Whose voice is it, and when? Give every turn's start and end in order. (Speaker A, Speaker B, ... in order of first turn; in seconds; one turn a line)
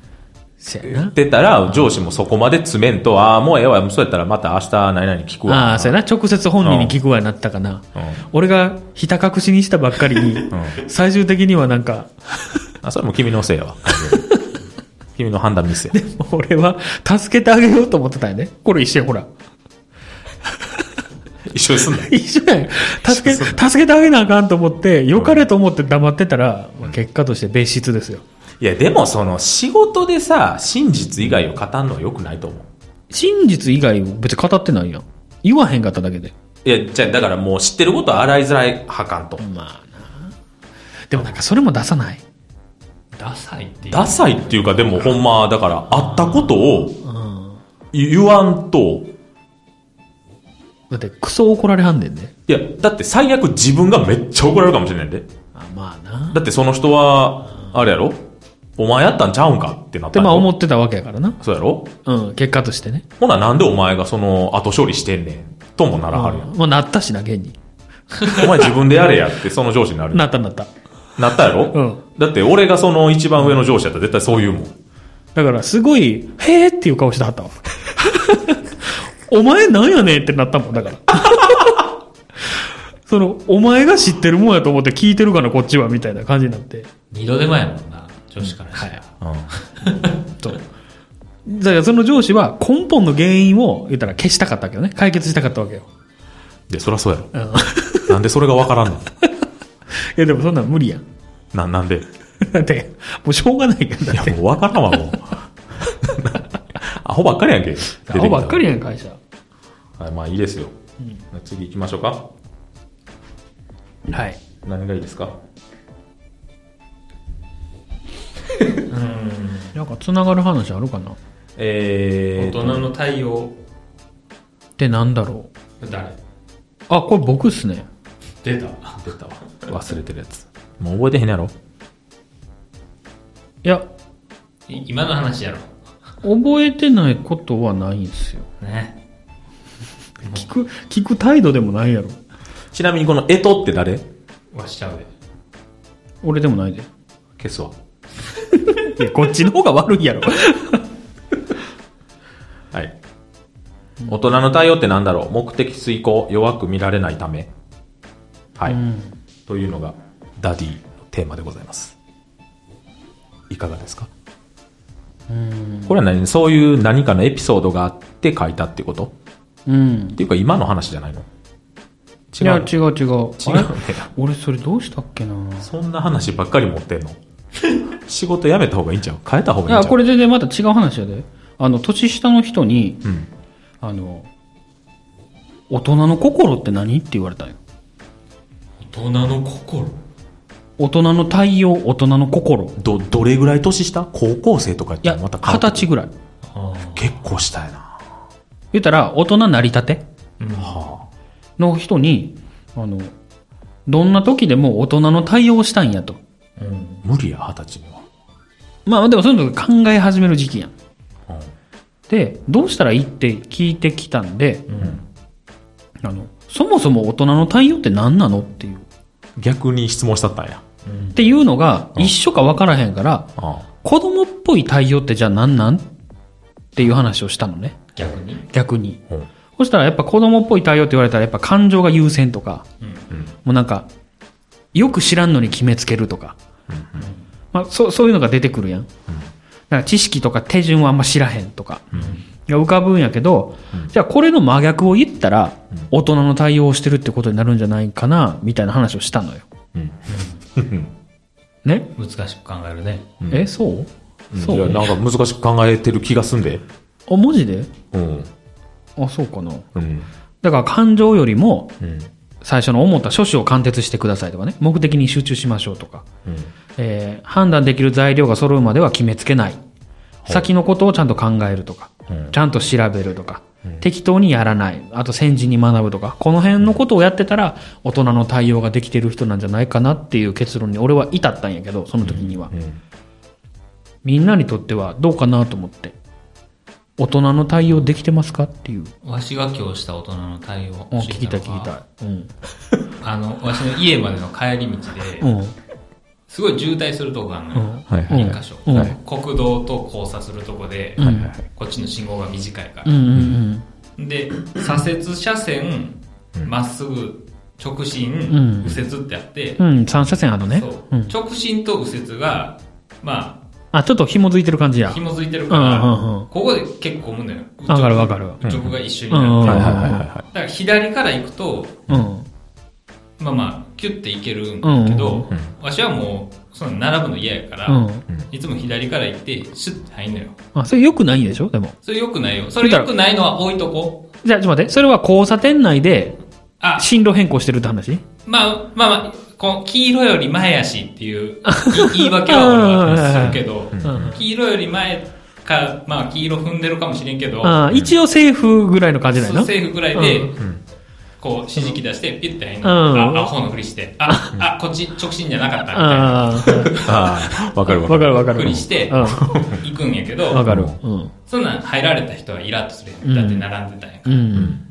Speaker A: 0.6-1.1
Speaker B: 0.8-6.0
Speaker A: 5.5-12.6
Speaker B: 6.6-6.9
Speaker B: 8.0-8.2
Speaker B: 10.5-10.8
Speaker B: 12.8-14.3
Speaker A: 13.9-14.4
Speaker B: 15.1-16.0
Speaker A: 15.9-19.3
Speaker A: 20.6-20.8
Speaker B: 21.5-22.1
Speaker A: 22.1-28.2
Speaker B: 23.0-23.6
Speaker B: 25.1-25.4
Speaker B: 28.6-32.7
Speaker A: 33.1-36.3
Speaker B: 36.6-39.4
Speaker A: 39.4-40.3
Speaker A: 41.1-42.2
Speaker C: 43.1-45.0
Speaker B: 43.9-47.0
Speaker A: 46.1-47.6
Speaker B: 47.9-49.1
Speaker A: 50.9-52.3
Speaker B: 52.5-55.3
Speaker A: 55.5-56.4
Speaker B: 56.3-58.2
Speaker B: 58.8-60.5
Speaker A: 60.1-61.4
Speaker B: 61.4-61.9
Speaker A: 62.0-63.0
Speaker B: 63.2-66.5
Speaker A: 66.1-67.6
Speaker B: 68.2-70.2
Speaker A: 70.1-70.7
Speaker B: 71.2-74.7
Speaker A: 71.7-72.0
Speaker A: 75.3-81.8
Speaker A: 82.5-86.9
Speaker C: 87.1-90.1
Speaker A: 88.7-89.0
Speaker B: 89.2-89.5
Speaker A: 89.8-90.6
Speaker A: 91.4-95.9
Speaker B: 96.7-97.3
Speaker A: 97.3-98.2
Speaker B: 98.0-99.1
Speaker A: 99.9-101.0
Speaker B: 101.5-102.1
Speaker A: 102.4-104.4
Speaker B: 104.1-108.6
Speaker A: 108.1-109.2
Speaker B: 110.0-110.7
Speaker B: 111.3-112.3
Speaker A: 114.1-114.4
Speaker B: 114.6-115.3
Speaker C: 118.9-119.7
Speaker A: 119.7-121.2
Speaker B: 121.6-122.8
Speaker C: 122.4-123.5
Speaker A: 124.8-125.5
Speaker C: 125.8-126.2
Speaker A: 126.9-127.9
Speaker C: 128.4-129.0
Speaker B: 129.0-131.5
Speaker C: 134.7-135.7
Speaker A: 136.2-138.5
Speaker C: 138.6-138.9
Speaker A: 140.2-142.2
Speaker B: 142.7-144.0
Speaker C: 144.5-145.1
Speaker A: 146.2-146.9
Speaker B: 147.4-147.7
Speaker A: 148.6-150.8
Speaker B: 154.1-157.5
Speaker A: 158.7-159.1
Speaker B: 159.5-161.9
Speaker B: 163.5-164.1
Speaker A: 165.3-165.9
Speaker B: 165.9-169.1
Speaker A: 169.7-170.2
Speaker B: 170.2-171.3
Speaker B: 172.3-172.7
Speaker A: 172.4-175.7
Speaker B: 173.4-174.1
Speaker B: 175.6-177.2
Speaker B: 178.0-180.0
Speaker A: 179.7-183.0
Speaker A: 183.8-184.3
Speaker A: 185.7-187.6
Speaker C: 188.8-189.9
Speaker A: 190.8-192.8
Speaker B: 192.8-195.9
Speaker A: 195.0-196.1
Speaker C: 196.5-197.0
Speaker B: 196.9-198.0
Speaker A: 198.7-200.0
Speaker C: 200.4-200.8
Speaker B: 200.6-201.1
Speaker A: 201.6-203.1
Speaker A: 203.8-206.2
Speaker C: 206.6-207.0
Speaker B: 207.0-208.0
Speaker A: 208.8-210.7
Speaker A: 212.1-214.7
Speaker C: 214.7-215.0
Speaker A: 216.0-218.8
Speaker B: 219.4-220.6
Speaker C: 220.8-221.2
Speaker A: 221.1-223.3
Speaker B: 223.4-223.6
Speaker A: 223.8-225.9
Speaker A: 226.7-227.9
Speaker C: 227.9-228.4
Speaker A: 228.5-229.0
Speaker A: 229.6-232.7
Speaker C: 232.8-233.1
Speaker A: 233.4-233.9
Speaker A: 234.7-236.4
Speaker B: 236.7-237.0
Speaker C: 237.0-237.2
Speaker A: 237.5-238.9
Speaker A: 239.7-249.4
Speaker B: 241.9-242.2
Speaker C: 241.9-242.2
Speaker B: 249.7-250.0
Speaker C: 250.1-250.4
Speaker B: 250.5-250.9
Speaker A: 251.6-251.9
Speaker C: 252.0-253.1
Speaker B: 253.2-253.5
Speaker A: 253.3-254.8
Speaker B: 254.3-256.6
Speaker A: 257.1-257.7
Speaker B: 257.9-258.3
Speaker A: 259.0-259.7
Speaker B: 259.7-260.1
Speaker A: 260.4-261.7
Speaker B: 261.8-262.1
Speaker A: 262.4-266.1
Speaker B: 266.2-266.5
Speaker A: 266.8-269.6
Speaker A: 270.3-282.5
Speaker B: 272.1-272.3
Speaker B: 282.0-282.8
Speaker A: 284.0-285.9
Speaker A: 287.0-288.9
Speaker C: 289.0-291.7
Speaker A: 290.9-292.3
Speaker C: 293.0-295.3
Speaker A: 295.2-295.5
Speaker C: 296.3-303.0
Speaker A: 297.5-298.9
Speaker B: 297.9-298.9
Speaker A: 301.0-301.3
Speaker B: 301.0-301.4
Speaker A: 302.8-303.6
Speaker C: 304.0-309.6
Speaker A: 308.3-308.8
Speaker A: 309.6-311.1
Speaker C: 310.5-313.4
Speaker A: 313.7-316.3
Speaker C: 314.9-321.8
Speaker A: 317.7-318.4
Speaker B: 318.4-318.7
Speaker A: 319.1-320.1
Speaker B: 319.4-320.2
Speaker A: 321.9-322.3
Speaker C: 323.2-330.4
Speaker A: 324.6-325.3
Speaker A: 327.7-328.0
Speaker A: 330.5-331.8
Speaker C: 331.8-334.0
Speaker A: 332.6-332.9
Speaker A: 334.2-336.2
Speaker C: 336.6-336.9
Speaker A: 336.8-338.0
Speaker C: 338.2-347.6
Speaker A: 341.4-344.2
Speaker B: 342.9-344.2
Speaker A: 347.4-350.3
Speaker B: 347.7-347.9
Speaker C: 349.1-350.4
Speaker C: 351.2-356.9
Speaker A: 352.6-353.3
Speaker A: 354.1-354.4
Speaker A: 355.7-356.9
Speaker B: 356.7-359.6
Speaker A: 357.7-359.2
Speaker C: 358.2-360.5
Speaker A: 360.3-361.1
Speaker B: 360.4-360.8
Speaker C: 361.3-364.4
Speaker A: 363.0-363.4
Speaker A: 364.1-364.6
Speaker B: 364.3-364.6